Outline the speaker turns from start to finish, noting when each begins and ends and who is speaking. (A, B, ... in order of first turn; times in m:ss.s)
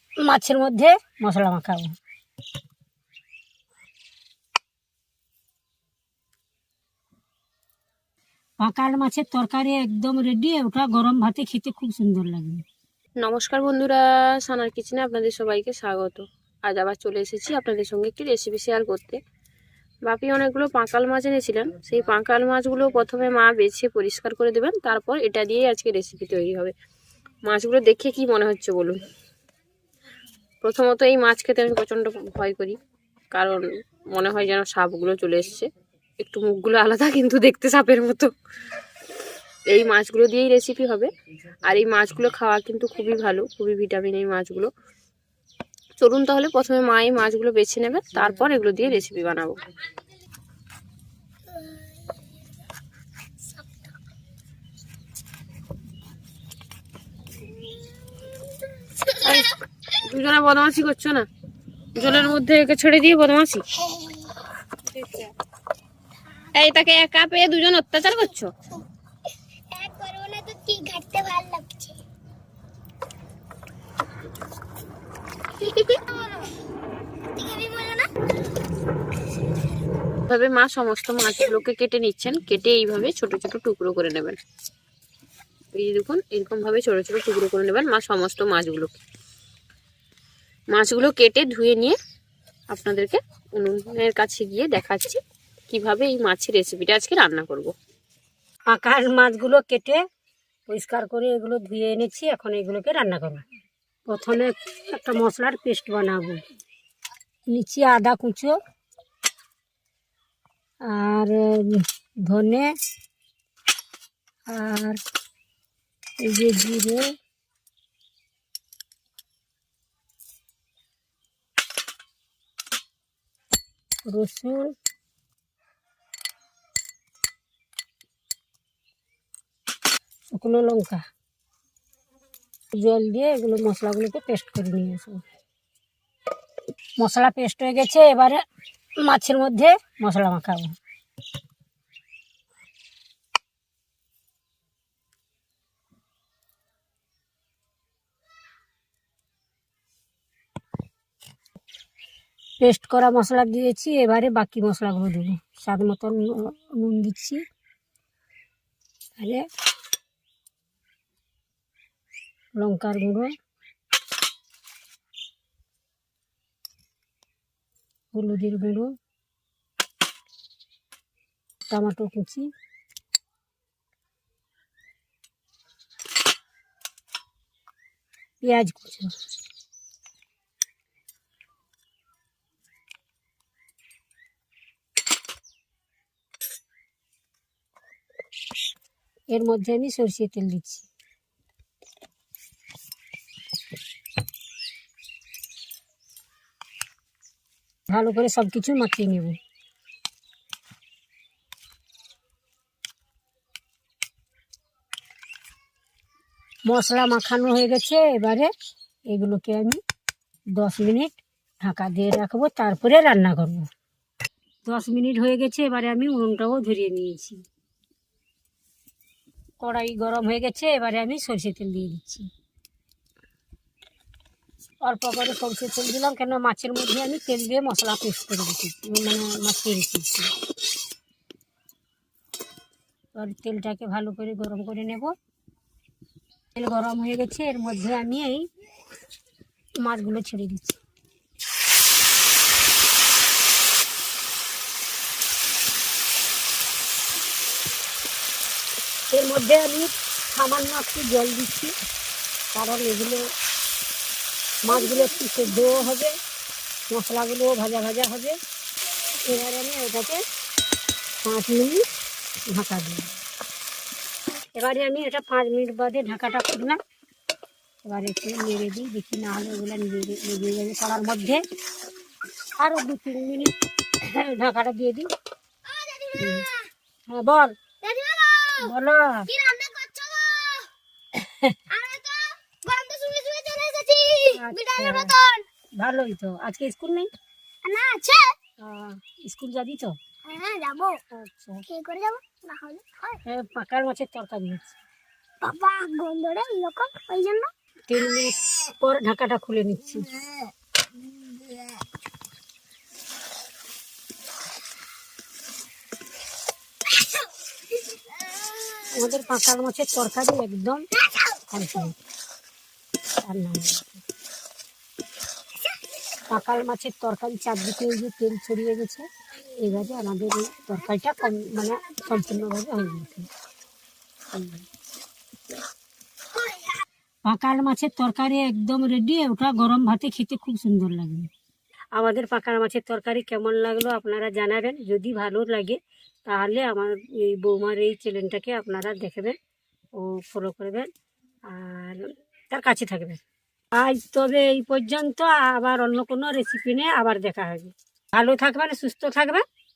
0:00.3-0:02.0 A
0:08.6-0:12.6 A
0:13.2-0:19.2 B
0:20.0-0:26.7 B
0:27.4-0:29.0 B
0:30.6-0:32.8 B
0:33.3-0:35.7 B
0:36.2-0:38.3 B
0:39.7-0:41.1 B
0:41.6-0:44.7 B
0:46.0-0:49.6 B
0:59.1-1:01.3 B
1:02.0-1:03.7 B
1:04.9-1:05.3 B
1:06.5-1:08.5 B
1:09.7-1:12.0 C
1:15.6-1:16.5 C
1:17.3-1:18.1 C
1:20.3-1:24.4 B
1:25.7-1:29.0 B
1:30.7-1:32.0 B
1:32.7-1:37.7 B
1:38.7-1:40.0 A
1:40.7-1:43.4 A
1:44.1-1:46.4 A
1:47.5-1:48.6 A
1:50.9-1:52.7 A
1:54.5-1:55.0 A
1:56.2-1:57.0 A
2:04.0-2:04.7 A
2:10.3-2:11.0 A
2:12.7-2:15.2 A
2:17.0-2:18.4 A
2:19.0-2:20.8 A
2:32.6-2:37.4 A
2:39.2-2:39.4 A
2:42.6-2:43.3 A
2:48.1-2:48.9 A
2:51.7-2:52.5 A
2:58.4-2:59.1 A
3:09.3-3:10.9 A
3:17.9-3:19.4 A
3:26.7-3:28.5 A
3:29.1-3:29.8 A
3:30.6-3:33.7 A
3:34.7-3:37.4 A
3:39.6-3:42.3 A
3:44.8-3:50.3 A
3:53.2-3:55.1 A
3:56.6-3:58.5 A
3:59.8-4:00.8 A
4:09.1-4:11.7 A
4:12.5-4:13.2 A
4:14.6-4:16.2 A
4:16.9-4:18.4 A
4:19.1-4:20.2 A
4:21.2-4:21.8 A
4:22.5-4:23.2 A
4:24.6-4:26.8 A
4:27.8-4:31.4 A
4:32.6-4:35.1 A
4:35.7-4:36.6 C
4:36.2-4:36.5 A
4:37.1-4:37.5 A
4:37.8-4:38.7 C
4:38.6-4:39.3 A
4:39.3-4:40.7 C
4:41.2-4:41.6 A
4:41.7-4:45.4 C
4:44.3-4:45.1 A
4:45.8-4:47.1 A
4:47.6-4:48.4 C
4:48.6-4:50.0 A
4:50.3-4:51.0 C
4:51.1-4:51.7 A
4:51.7-4:53.2 C
4:53.2-4:54.8 A
4:55.4-4:57.5 C
4:57.9-5:00.2 A
5:08.8-5:12.0 A
5:13.2-5:14.0 A
5:16.3-5:23.3 A
5:24.3-5:24.6 A
5:27.3-5:31.3 A
5:32.0-5:39.4 A
5:40.0-5:40.9 A
5:41.5-5:43.2 A
5:43.8-5:49.4 A